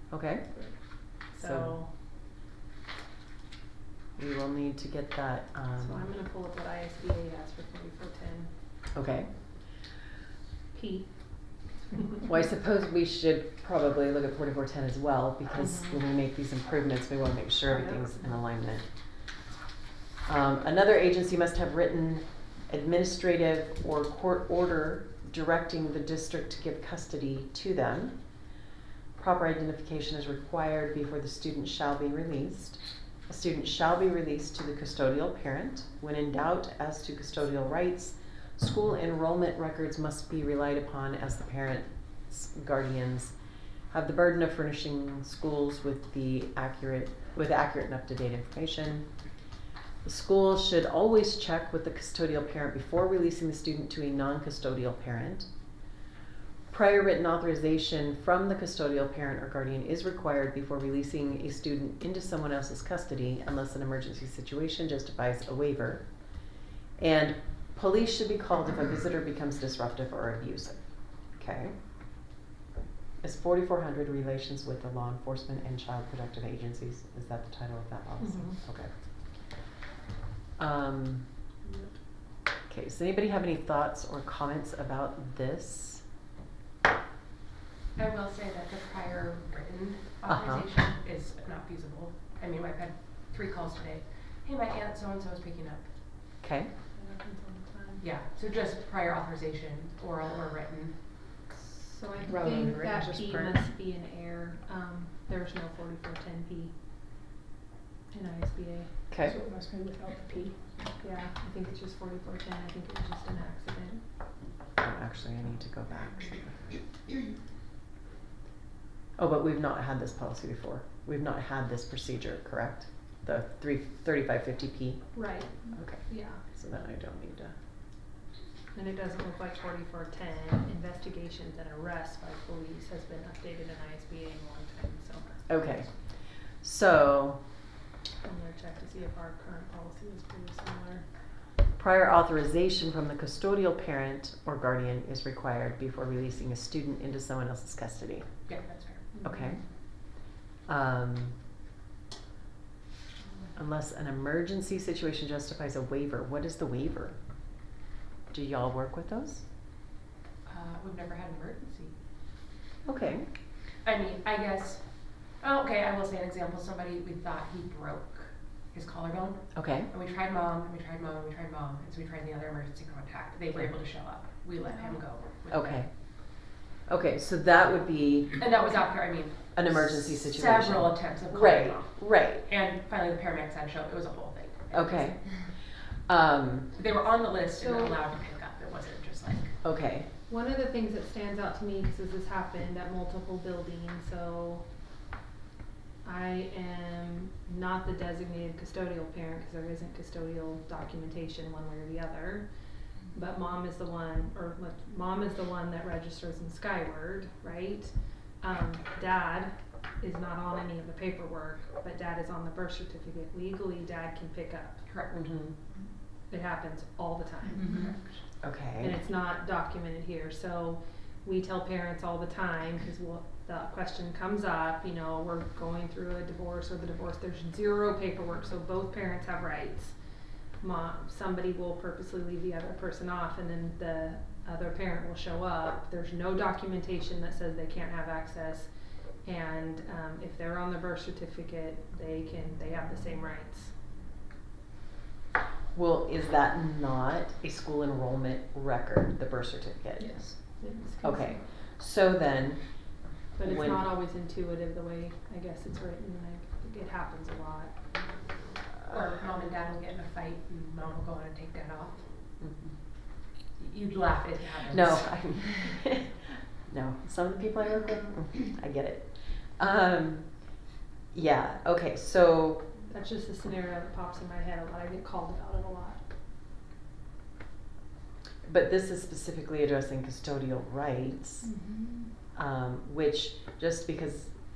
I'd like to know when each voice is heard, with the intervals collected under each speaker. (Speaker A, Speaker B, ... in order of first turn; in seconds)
Speaker A: 0.1-0.6, 1.4-1.8, 4.2-6.1, 8.9-9.3, 12.2-18.9, 20.3-28.2, 29.2-43.3, 43.9-49.1, 50.0-55.5, 56.7-66.1, 67.0-70.8, 71.4-71.8, 73.2-78.9, 80.6-81.3, 82.7-86.0, 90.3-90.7, 96.4-96.7, 102.3-103.5, 109.1-109.3, 114.8-116.6, 119.2-127.5, 135.5-136.1, 136.6-137.4, 141.8-148.4, 149.2-149.6, 150.7-151.4, 153.6-157.2, 158.3-159.4, 162.8-163.3, 169.6-169.9, 175.5-176.3, 176.9-178.4, 179.6-182.4, 184.7-185.4, 186.1-186.7, 189.6-190.1, 215.1-215.6, 218.4-219.0, 245.7-250.3, 251.0-253.9, 264.7-270.3, 271.1-272.7, 278.5-281.5, 282.4-284.3
Speaker B: 1.3-1.9, 5.8-8.5, 10.7-11.1, 11.9-12.2, 15.6-16.0, 17.7-18.0, 78.2-78.6, 96.9-98.0, 101.7-106.8, 108.1-108.9, 111.0-114.0, 125.2-126.4, 128.7-135.5, 138.2-141.1, 149.2-149.6, 187.6-188.0, 190.3-194.7, 196.0-202.5, 203.1-214.8, 216.3-218.1, 218.8-230.0, 230.6-238.7, 239.2-243.7, 250.0-251.4, 253.4-257.9, 272.9-276.1
Speaker C: 88.0-95.9, 98.0-101.0, 148.5-149.1, 160.5-161.9, 163.8-175.8, 178.4-185.2, 186.8-189.6, 214.9-215.1, 258.9-262.1, 263.6-265.0
Speaker D: 109.2-110.8, 217.7-217.9, 281.4-282.1